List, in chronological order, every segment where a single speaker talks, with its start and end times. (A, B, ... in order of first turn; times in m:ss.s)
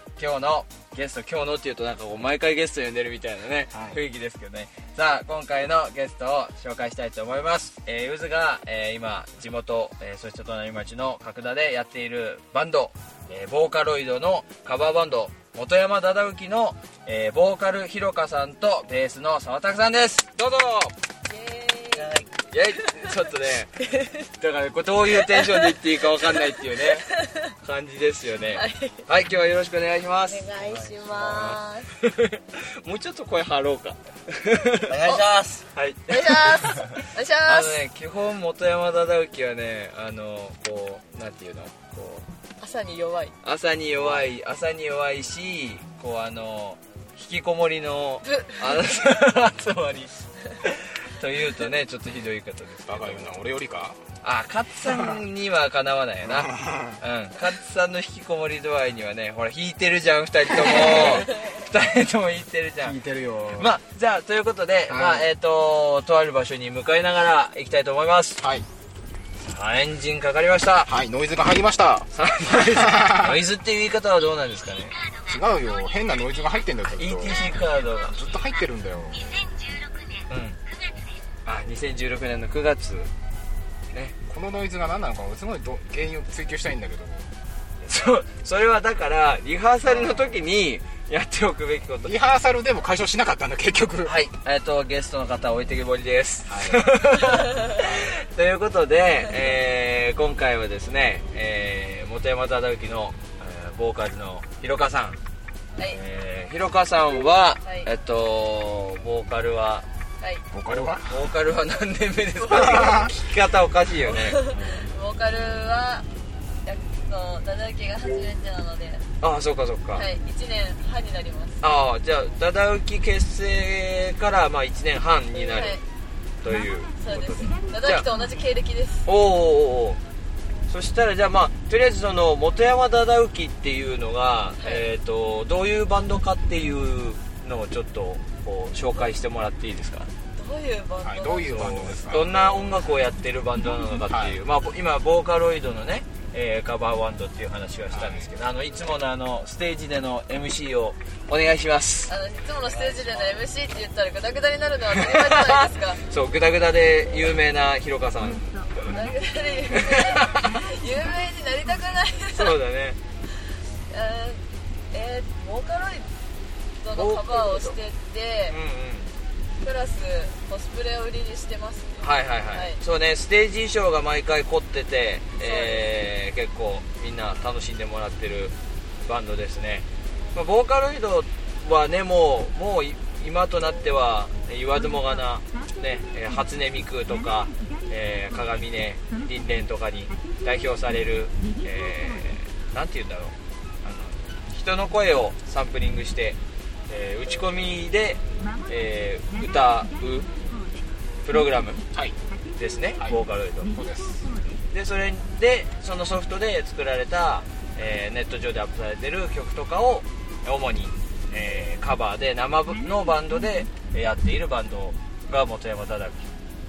0:00.2-0:20.9 A
0:03.7-0:04.0 B
0:21.3-0:22.1 C
0:21.9-0:22.3 D
0:22.5-0:23.7 A
0:23.8-0:24.3 C
0:24.4-0:27.1 A
0:25.1-0:27.6 C
0:27.6-0:30.5 A
0:28.5-0:29.0 C
0:30.3-0:31.9 C
0:30.6-0:31.6 D
0:31.4-0:34.9 A
0:34.9-0:35.7 D
0:35.7-0:36.8 A
0:36.1-0:37.8 C
0:37.5-0:42.2 A
0:42.6-0:43.4 C
0:43.4-0:53.4 A
0:44.0-0:44.3 D
0:48.3-0:48.6 C
0:52.9-0:54.0 B
0:54.2-1:03.0 A
0:56.2-0:57.0 B
1:00.6-1:01.3 B
1:02.8-1:03.7 B
1:03.6-1:08.4 A
1:04.9-1:05.3 B
1:08.4-1:08.7 B
1:09.4-1:10.9 A
1:10.9-1:13.4 B
1:12.1-1:15.0 A
1:15.2-1:19.6 B
1:16.8-1:18.2 A
1:20.3-1:20.6 A
1:21.4-1:23.1 A
1:24.3-1:27.3 B
1:27.8-1:32.2 A
1:29.8-1:30.4 B
1:32.0-1:34.1 B
1:34.0-1:45.2 A
1:36.5-1:36.8 B
1:37.6-1:38.1 B
1:45.8-1:49.9 A
1:50.5-1:51.3 B
1:50.7-1:54.4 A
1:52.5-1:52.9 C
1:52.5-1:53.1 B
1:54.1-1:56.1 C
1:56.6-1:59.0 C
1:59.2-2:00.1 A
2:00.0-2:01.6 C
2:01.6-2:05.8 A
2:05.4-2:05.8 C
2:06.4-2:08.1 A
2:07.0-2:09.1 C
2:09.1-2:10.0 A
2:10.7-2:20.1 A
2:20.4-2:22.5 C
2:21.0-2:22.3 B
2:21.5-2:32.1 A
2:24.1-2:24.4 B
2:27.9-2:28.3 B
2:32.1-2:36.0 C
2:32.6-2:33.5 D
2:35.0-2:38.9 A
2:38.9-2:42.6 C
2:39.7-2:40.6 A
2:42.3-2:43.0 A
2:43.9-2:46.1 C
2:46.8-2:48.6 C
2:47.0-2:47.8 A
2:48.5-2:49.1 A
2:49.6-2:52.8 C
2:52.0-3:20.3 A
2:55.4-2:55.9 C
3:21.2-3:21.8 A
3:22.6-3:23.7 A
3:23.0-3:24.3 B
3:24.7-3:36.3 A